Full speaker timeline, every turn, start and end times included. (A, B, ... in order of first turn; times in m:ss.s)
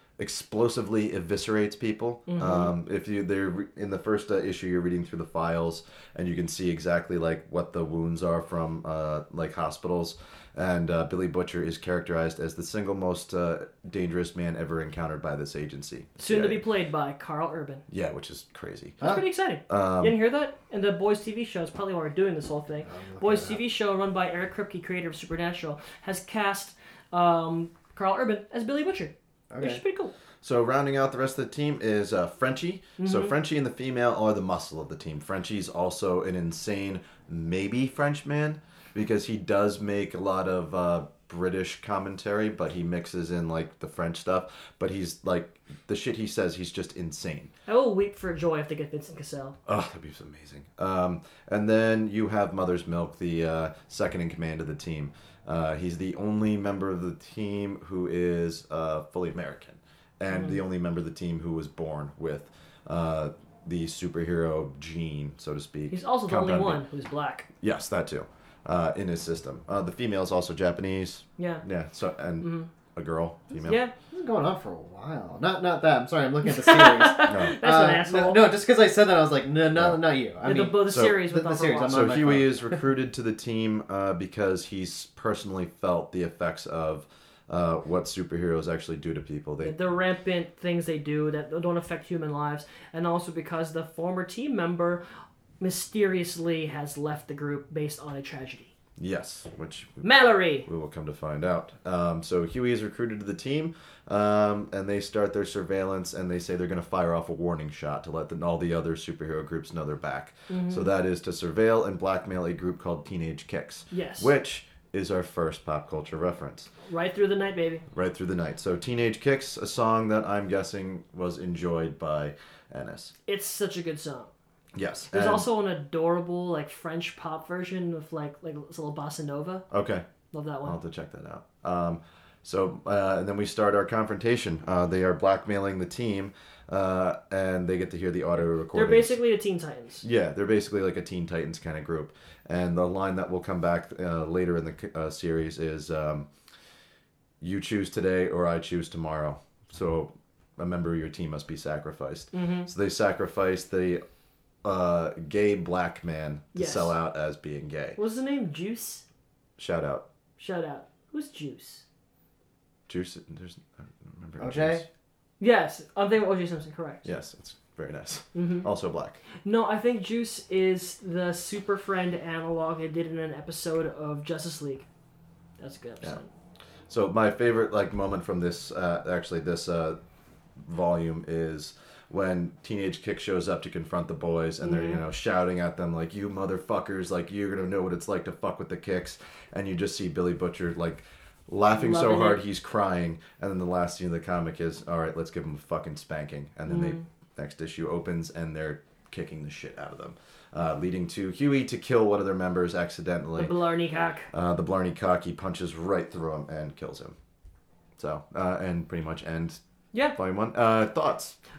0:00.2-0:16.6 A
0:02.3-0:02.7 B
0:16.2-0:17.8 B
0:17.9-0:19.0 A
0:19.0-0:30.1 B
0:19.7-0:20.2 A
0:22.9-0:23.6 C
0:29.5-0:29.8 C
0:30.4-0:47.5 A
0:33.0-0:33.3 B
0:47.7-0:49.6 B
0:49.7-1:06.8 A
1:00.3-1:00.6 B
1:05.9-1:07.5 B
1:07.6-1:13.8 A
1:11.4-1:11.6 B
1:12.4-1:12.7 B
1:13.6-1:13.9 B
1:14.1-1:22.8 C
1:16.4-1:18.5 B
1:17.3-1:17.6 A
1:19.8-1:20.0 A
1:20.4-1:22.1 B
1:20.9-1:21.2 A
1:21.9-1:29.8 A
1:29.6-1:35.0 B
1:35.6-1:38.7 B
1:39.0-1:56.7 A
1:40.0-1:40.7 B
1:50.5-1:50.9 B
1:53.9-1:54.3 B
1:56.9-1:57.8 B
1:57.9-2:03.1 A
2:03.3-2:04.3 B
2:04.7-2:05.5 A
2:05.1-2:09.6 B
2:09.7-2:10.0 A
2:10.3-2:10.8 B
2:10.6-2:19.2 A
2:18.7-2:20.0 B
2:20.0-2:26.3 A
2:27.4-2:34.0 A
2:32.3-2:32.7 B
2:34.6-2:38.0 A
2:36.5-2:37.0 B
2:38.0-2:39.0 B
2:39.6-2:40.0 A
2:40.4-2:41.8 B
2:42.9-2:44.9 A
2:44.4-2:44.8 C
2:45.4-2:47.1 B
2:47.0-2:49.2 A
2:48.3-2:48.7 B
2:49.4-2:54.9 B
2:55.6-2:56.3 B
2:56.9-3:00.0 A
3:00.6-3:23.6 A
3:04.6-3:05.0 B
3:11.7-3:12.4 B
3:16.7-3:17.0 B
3:23.4-3:24.3 B
3:24.3-3:27.2 A
3:28.0-3:29.6 A
3:30.1-3:31.4 A